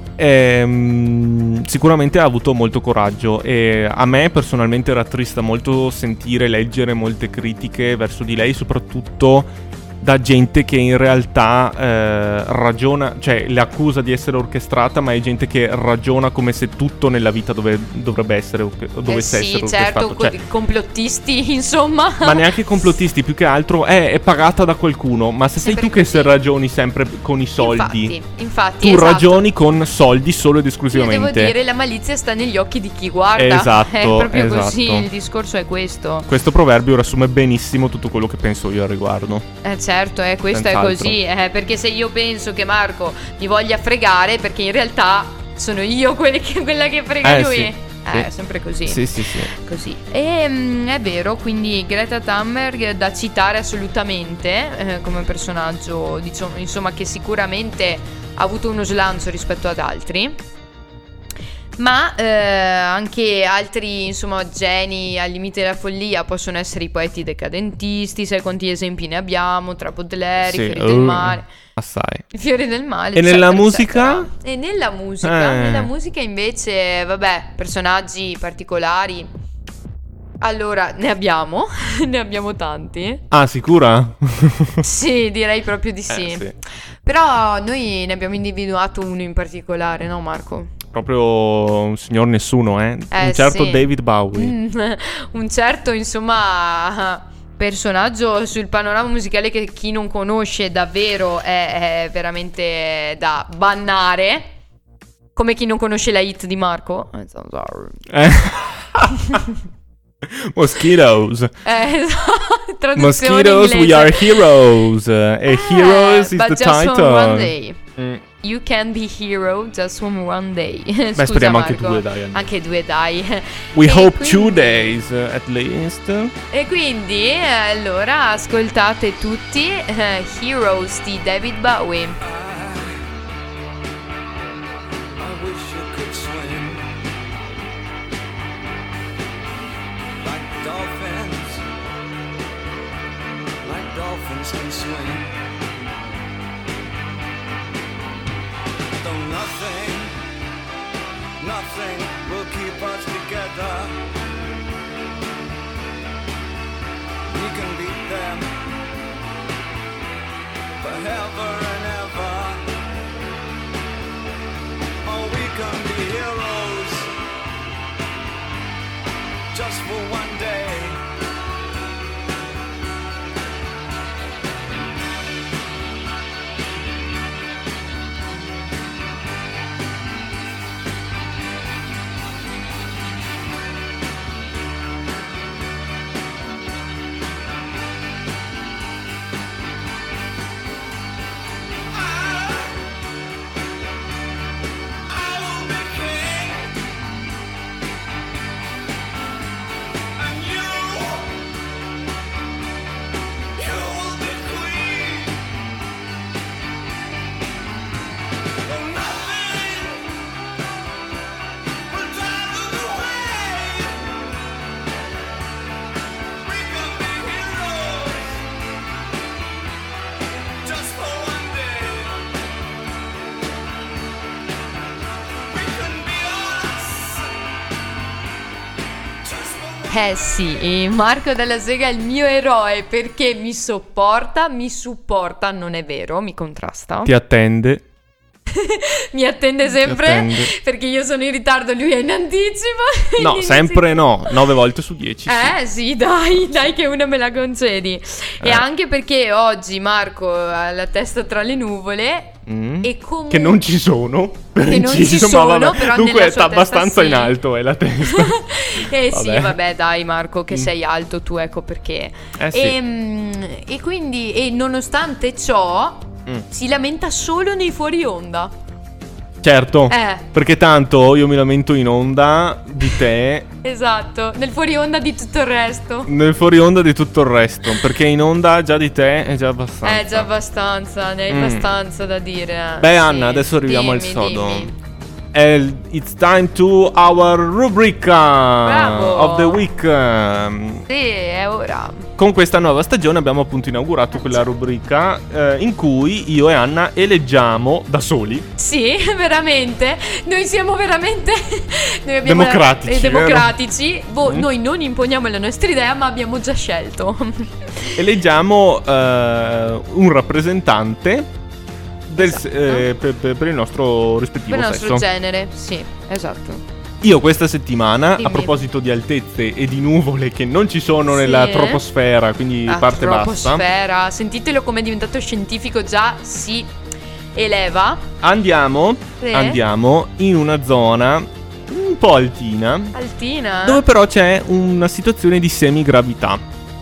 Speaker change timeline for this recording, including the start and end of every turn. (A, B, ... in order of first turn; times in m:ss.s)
0:00.2-0:20.4 A
0:19.1-0:22.4 B
0:22.2-0:28.2 A
0:25.6-0:26.3 B
0:27.6-0:29.4 B
0:28.8-0:31.5 A
0:30.9-0:36.3 B
0:33.4-0:35.1 A
0:36.3-0:39.5 A
0:39.6-1:00.4 B
0:40.5-0:41.2 A
0:47.2-0:48.3 A
0:48.9-0:49.5 A
1:01.8-1:11.5 B
1:10.4-1:12.3 A
1:12.3-1:19.3 B
1:13.2-1:14.3 A
1:15.2-1:15.9 A
1:20.4-1:23.2 B
1:23.3-1:24.8 A
1:24.8-1:30.7 B
1:26.1-1:26.6 A
1:30.9-1:34.6 A
1:33.1-1:44.5 B
1:45.4-1:48.0 B
1:48.1-1:49.4 A
1:50.2-1:51.6 A
1:51.6-1:54.5 B
1:53.0-1:58.2 A
1:55.5-1:57.8 B
1:58.4-2:05.0 B
2:01.2-2:02.5 A
2:03.7-2:06.4 A
2:06.5-2:12.2 B
2:12.2-2:13.0 C
2:15.2-2:16.9 C
2:20.2-2:21.6 C
2:23.6-2:25.3 C
2:29.0-2:30.2 C
2:31.4-2:34.0 C
2:37.3-2:38.5 C
2:40.8-2:42.7 C
2:45.0-2:47.1 C
2:49.5-2:51.0 C
3:12.0-3:12.8 C
3:15.1-3:16.8 C
3:20.2-3:21.4 C
3:23.6-3:25.4 C
3:28.6-3:30.0 C
3:31.9-3:34.0 C
3:36.4-3:38.5 C
3:40.6-3:42.2 C
3:45.5-3:47.3 C
3:49.2-3:50.3 C
3:49.9-3:57.1 B
3:57.0-3:57.8 A
3:58.5-4:04.4 B
3:59.6-4:00.5 A
4:03.2-4:05.6 A
4:05.3-4:13.7 B
4:08.4-4:08.6 A
4:12.5-4:19.6 A
4:14.6-4:17.4 B
4:18.0-4:28.5 B
4:22.4-4:22.8 A
4:29.4-4:33.5 A
4:29.9-4:30.2 B
4:33.6-4:36.1 B
4:36.1-4:40.3 A
4:39.8-4:44.8 B
4:41.3-4:41.8 A
4:42.8-4:44.7 A
4:45.3-4:50.9 A
4:48.6-4:49.7 B
4:50.9-4:52.1 B
4:52.2-4:58.5 A
4:54.1-4:54.4 B
4:58.6-5:08.0 B
5:02.2-5:03.6 A
5:08.0-5:11.3 A
5:12.1-5:12.9 B
5:12.1-5:15.0 A
5:14.5-5:16.6 B
5:17.0-5:23.6 A
5:18.2-5:18.6 B
5:21.1-5:21.8 B
5:22.7-5:26.7 B
5:27.4-5:28.1 B
5:28.2-5:33.0 A
5:29.2-5:29.6 B
5:32.9-5:33.8 B
5:33.6-5:36.4 A